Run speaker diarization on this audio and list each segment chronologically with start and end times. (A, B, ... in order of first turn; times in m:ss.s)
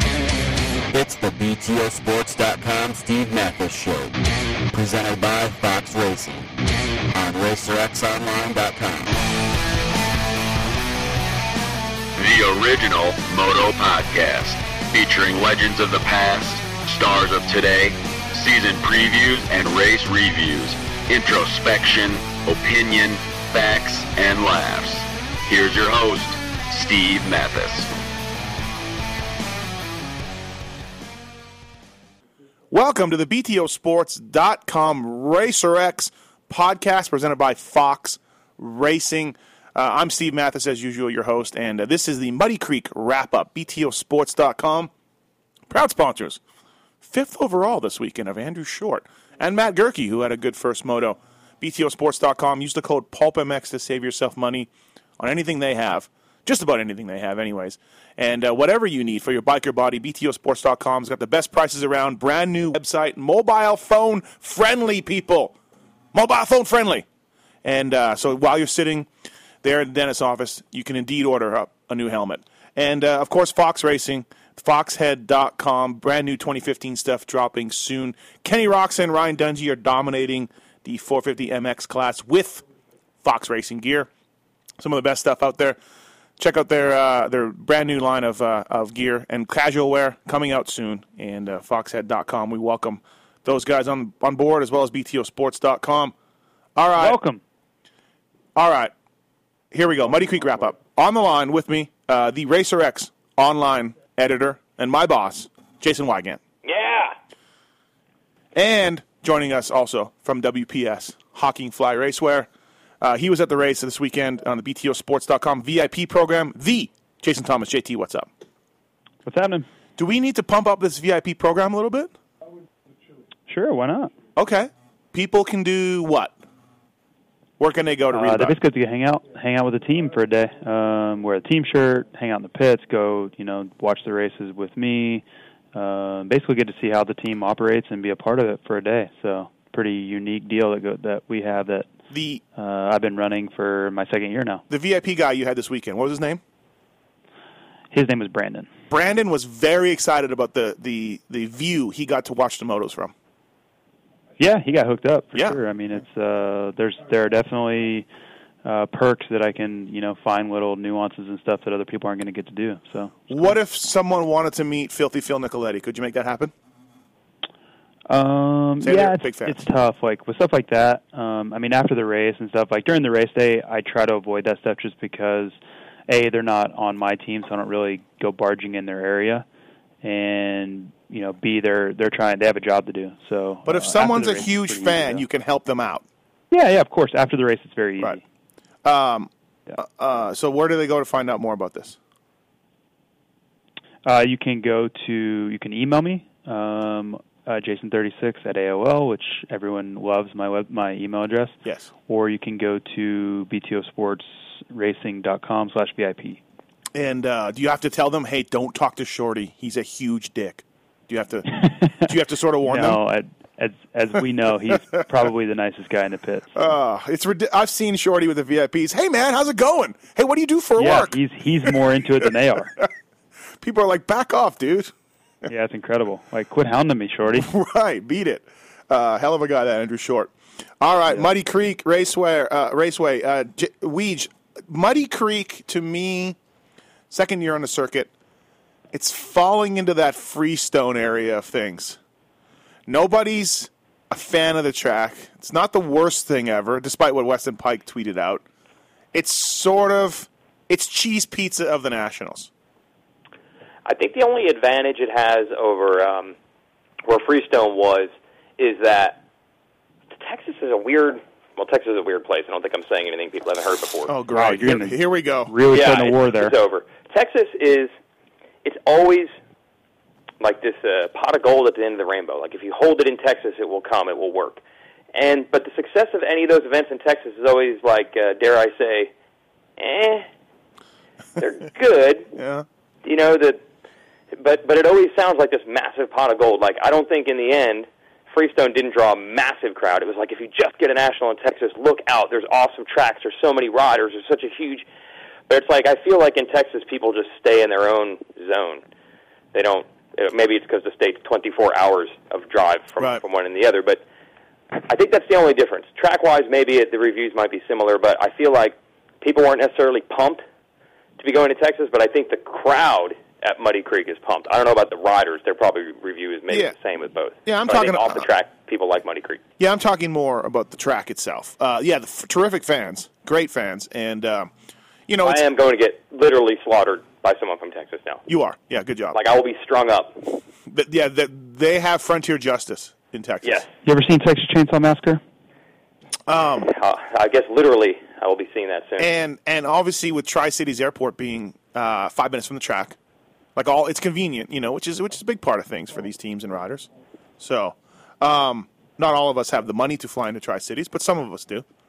0:00.9-0:04.1 A
0:04.7-0:06.5 A
0:07.1-0:09.1 A
0:12.2-0:27.9 B
0:32.7-0:44.9 C
0:45.7-0:46.4 C
0:47.0-1:05.6 C
1:06.1-1:07.0 C
1:07.6-1:09.1 C
1:09.6-1:22.6 C
1:23.2-1:24.1 C
1:24.8-1:25.8 C
1:26.4-1:36.1 C
1:36.8-1:37.2 C
1:37.0-1:37.4 D
1:38.6-1:38.9 C
1:39.7-1:46.4 C
1:46.6-1:47.2 E
1:48.6-1:52.5 C
1:53.0-1:58.3 C
1:59.3-1:59.7 D
2:00.0-2:02.1 C
2:03.5-2:04.1 D
2:04.4-2:06.4 C
2:07.6-2:08.6 C
2:08.1-2:21.9 D
2:22.1-2:22.4 C
2:22.6-2:24.6 D
2:24.7-2:26.4 C
2:27.9-2:28.7 D
2:28.9-2:33.1 C
2:34.4-2:38.1 D
2:38.6-2:43.6 D
2:43.3-2:46.5 C
2:48.1-2:55.6 D
2:48.8-2:49.6 C
2:56.1-2:59.4 D
3:00.0-3:05.2 D
3:03.6-3:06.0 C
3:06.5-3:08.2 D
3:08.8-3:12.0 C
3:14.0-3:26.4 D
3:26.9-3:33.0 C
3:31.5-3:32.1 D
3:32.6-3:36.5 D
3:36.6-3:41.7 C
3:40.8-3:42.8 D
3:43.6-3:44.9 C
3:45.5-3:47.5 D
3:47.4-3:56.4 C
3:57.1-3:58.1 C
3:58.9-4:02.0 C
4:02.9-4:08.4 C
4:09.1-4:12.5 C
4:13.8-4:16.4 E
4:17.0-4:19.2 E
4:20.2-4:24.1 E
4:24.1-4:25.5 C
4:24.3-4:26.5 D
4:25.7-4:27.9 E
4:28.6-4:29.3 E
4:30.4-4:34.6 E
4:35.1-4:39.1 E
4:39.8-4:40.3 E
4:41.4-4:42.3 E
4:42.4-4:42.6 C
4:43.0-4:43.6 E
4:44.4-4:54.9 E
4:55.5-4:58.8 E
4:59.5-5:04.0 E
5:04.8-5:10.4 E
5:11.2-5:19.4 E
5:17.4-5:18.3 C
5:19.6-5:24.5 C
5:25.1-5:25.4 C
5:25.2-5:28.2 E
5:28.3-5:29.2 C
5:29.1-5:30.2 E
5:30.7-5:33.6 C
5:33.4-5:33.7 E
5:33.8-5:35.2 D
5:36.3-5:36.7 C
5:36.7-5:39.1 E
5:39.0-5:43.0 C
5:43.6-5:51.6 C